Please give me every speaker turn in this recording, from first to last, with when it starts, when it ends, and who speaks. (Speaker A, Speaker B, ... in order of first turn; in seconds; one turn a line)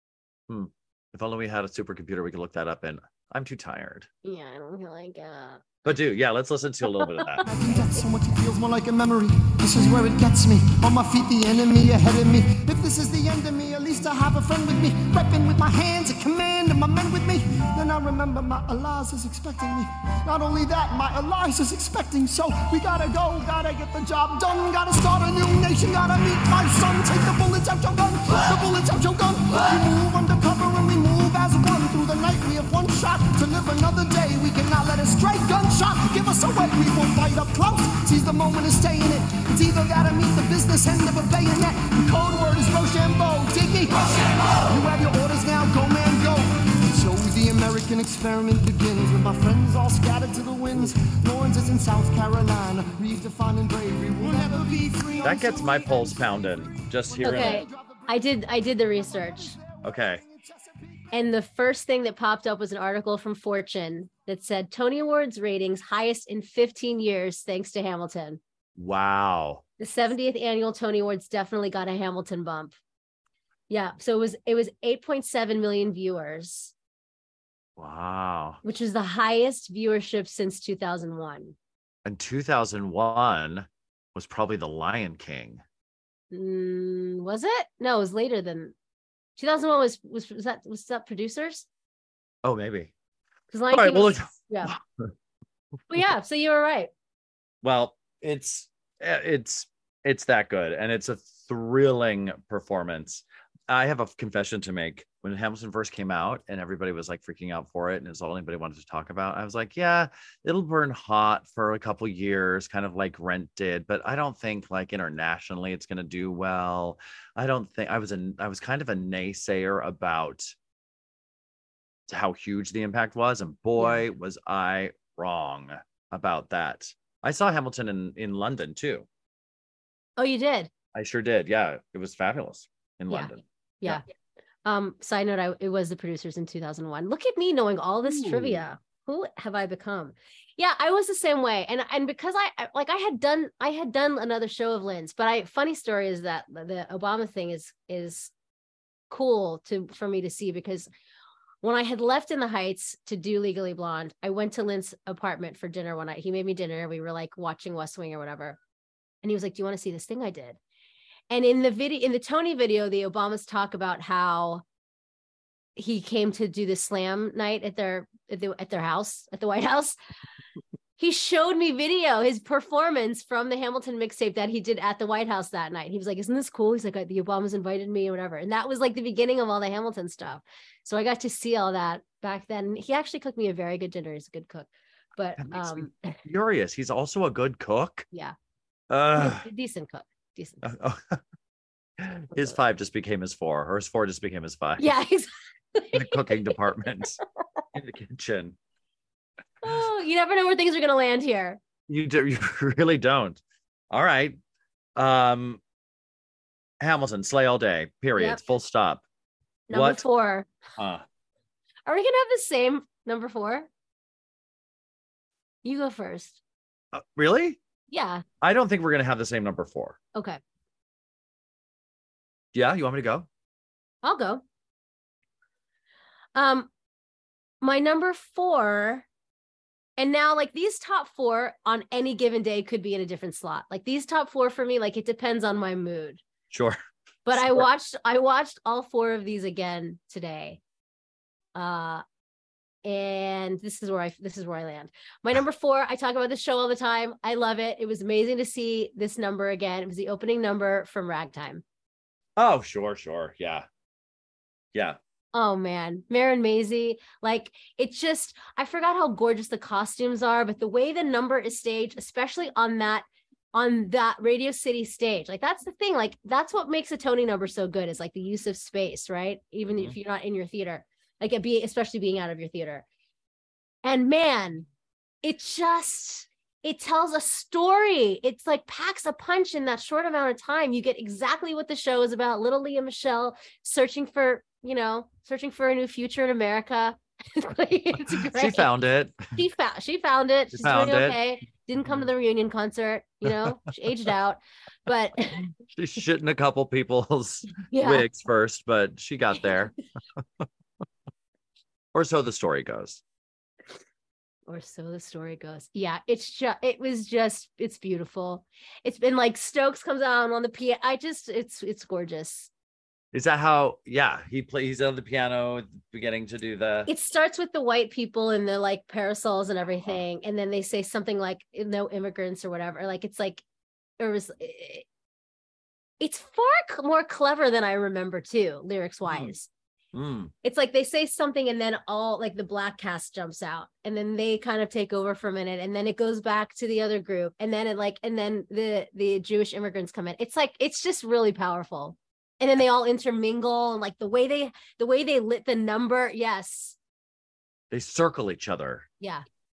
Speaker A: 0.5-4.1
Speaker B: 4.2-5.6
Speaker A: 5.8-7.4
Speaker B: 7.4-8.1
Speaker C: 7.5-61.1
Speaker A: 55.2-57.7
Speaker B: 57.2-59.6
Speaker A: 59.8-60.2
Speaker B: 61.1-68.4
Speaker A: 68.8-69.6
Speaker B: 69.8-72.8
Speaker B: 73.7-76.7
Speaker A: 77.8-78.6
Speaker B: 78.6-81.5
Speaker A: 82.0-85.6
Speaker B: 86.3-88.7
Speaker B: 89.4-91.7
Speaker A: 92.4-92.9
Speaker B: 93.5-94.8
Speaker A: 93.7-95.1
Speaker B: 95.9-96.9
Speaker A: 97.6-120.5
Speaker A: 122.1-129.1
Speaker B: 123.8-124.0
Speaker B: 130.2-130.7
Speaker A: 130.9-134.0
Speaker B: 134.7-148.3
Speaker A: 138.1-138.6
Speaker B: 149.1-150.9
Speaker B: 151.6-158.6
Speaker B: 159.2-160.6
Speaker B: 161.3-164.6
Speaker B: 165.8-170.0
Speaker B: 171.0-186.2
Speaker A: 185.4-188.1
Speaker A: 188.9-189.5
Speaker B: 189.2-190.7
Speaker A: 190.6-191.2
Speaker A: 192.0-194.9
Speaker B: 194.8-196.6
Speaker A: 195.9-197.2
Speaker A: 197.7-198.6
Speaker B: 199.6-201.6
Speaker A: 201.9-203.4
Speaker A: 203.9-204.4
Speaker A: 205.0-205.6
Speaker A: 206.8-209.0
Speaker B: 209.7-210.5
Speaker A: 209.7-210.1
Speaker A: 210.8-211.1
Speaker B: 211.9-213.7
Speaker B: 215.6-216.4
Speaker A: 216.9-217.6
Speaker B: 217.9-218.2
Speaker A: 218.4-220.0
Speaker B: 220.2-220.4
Speaker A: 222.5-223.3
Speaker B: 224.0-224.4
Speaker B: 226.3-226.7
Speaker B: 227.6-229.1
Speaker B: 230.0-236.2
Speaker A: 236.5-236.8
Speaker B: 237.3-240.6
Speaker A: 237.3-237.7
Speaker B: 241.6-242.0
Speaker B: 242.8-251.6
Speaker A: 252.4-253.7
Speaker B: 255.3-272.9
Speaker B: 273.8-274.7
Speaker B: 275.2-288.7
Speaker A: 288.1-289.4
Speaker B: 289.3-295.5
Speaker A: 290.5-291.2
Speaker A: 295.7-300.5
Speaker B: 297.6-298.1
Speaker A: 301.9-303.0
Speaker B: 304.5-312.5
Speaker A: 313.1-316.9
Speaker B: 316.9-323.4
Speaker B: 324.0-324.9
Speaker B: 326.0-329.5
Speaker A: 329.1-329.3
Speaker A: 329.9-330.3
Speaker B: 330.4-346.8
Speaker A: 347.7-348.9